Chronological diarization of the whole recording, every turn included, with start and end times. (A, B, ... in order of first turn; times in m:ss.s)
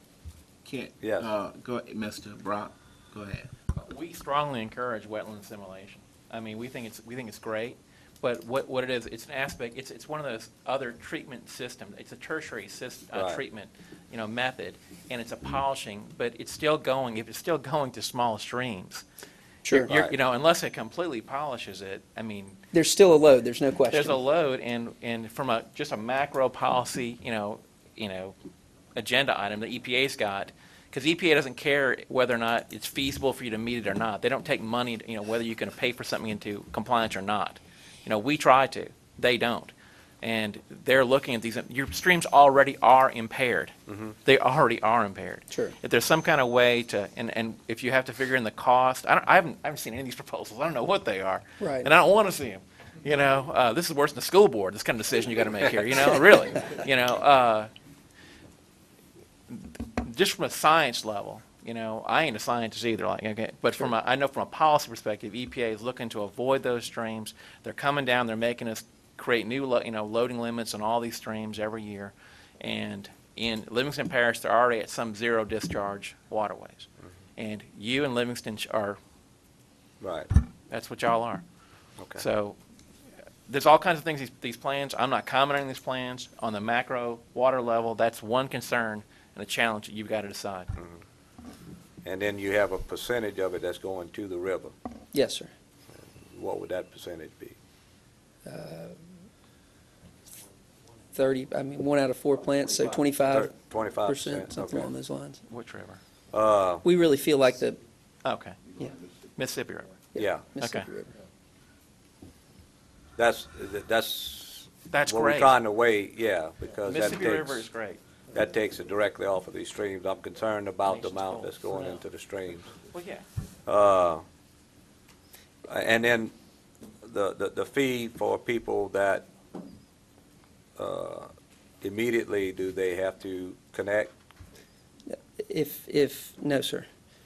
0:00.6-0:03.5 A
0:01.0-0:01.3 B
0:03.8-0:19.0 C
0:13.1-0:13.4 B
0:19.7-0:19.9 D
0:19.7-0:22.6 C
0:19.9-0:20.1 B
0:22.7-0:24.1 D
0:23.9-0:28.3 C
0:29.0-0:57.7 C
0:43.9-0:44.1 B
0:45.5-0:45.7 D
0:51.6-0:51.9 D
0:59.5-1:19.0 C
1:20.0-1:20.3 B
1:20.7-1:21.4 C
1:22.0-1:22.2 B
1:22.2-1:22.6 C
1:23.5-1:30.7 C
1:30.8-1:31.0 B
1:32.0-1:34.7 B
1:35.1-1:35.5 D
1:35.9-1:37.6 B
1:38.4-1:39.0 D
1:41.1-1:45.4 D
1:43.3-1:44.9 B
1:45.5-1:46.0 C
1:46.3-1:46.8 B
1:46.8-1:47.8 D
1:48.2-1:48.6 C
1:49.4-1:50.0 C
1:50.1-1:51.1 D
1:50.2-1:50.5 B
1:50.6-1:50.9 C
1:53.2-1:57.6 B
1:54.9-1:55.6 C
1:56.9-1:58.0 C
1:58.3-2:02.7 B
2:00.9-2:02.0 C
2:02.9-2:03.2 C
2:03.6-2:04.2 B
2:05.6-2:06.3 B
2:07.0-2:09.3 B
2:10.8-2:14.1 B
2:15.1-2:16.9 D